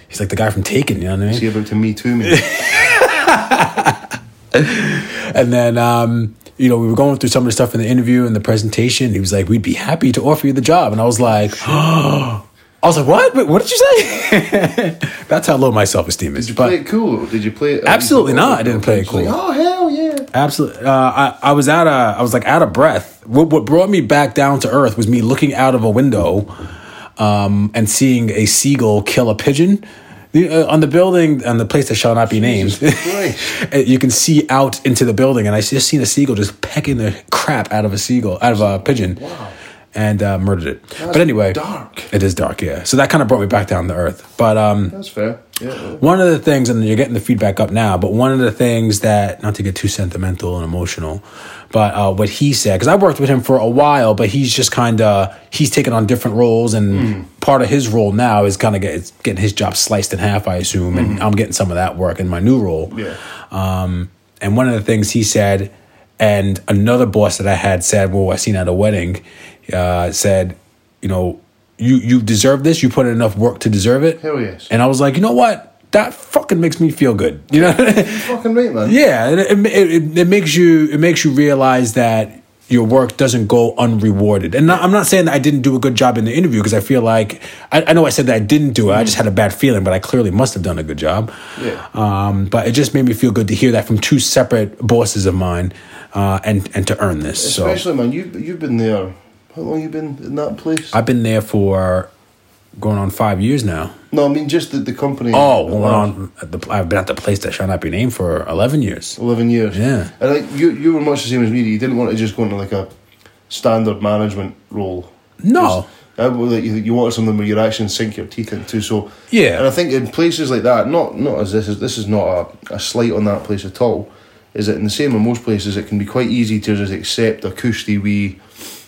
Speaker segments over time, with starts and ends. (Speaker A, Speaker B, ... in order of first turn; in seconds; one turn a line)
Speaker A: 0.1-1.5
Speaker B: 1.3-2.5
Speaker A: 2.2-16.8
Speaker B: 11.2-11.8
Speaker B: 16.4-20.3
Speaker A: 17.9-19.3
Speaker A: 20.3-26.5
Speaker A: 27.2-39.2
Speaker B: 32.3-33.5
Speaker B: 38.5-39.6
Speaker A: 39.9-45.0
Speaker B: 41.0-42.1
Speaker B: 44.9-46.0
Speaker A: 46.0-63.0
Speaker B: 56.9-57.2
Speaker B: 60.9-61.2
Speaker B: 62.9-63.2
Speaker A: 63.5-78.3
Speaker B: 74.2-74.7
Speaker B: 77.5-79.0
Speaker A: 78.8-91.3
Speaker B: 88.9-89.2
Speaker B: 91.6-91.8
Speaker A: 91.9-97.8
Speaker B: 97.4-101.0
Speaker A: 100.9-102.1
Speaker A: 102.8-103.9
Speaker B: 104.1-106.1
Speaker A: 105.3-109.2
Speaker B: 109.2-112.9
Speaker A: 109.7-110.1
Speaker B: 113.5-128.4
Speaker A: 115.4-115.9
Speaker A: 119.3-119.7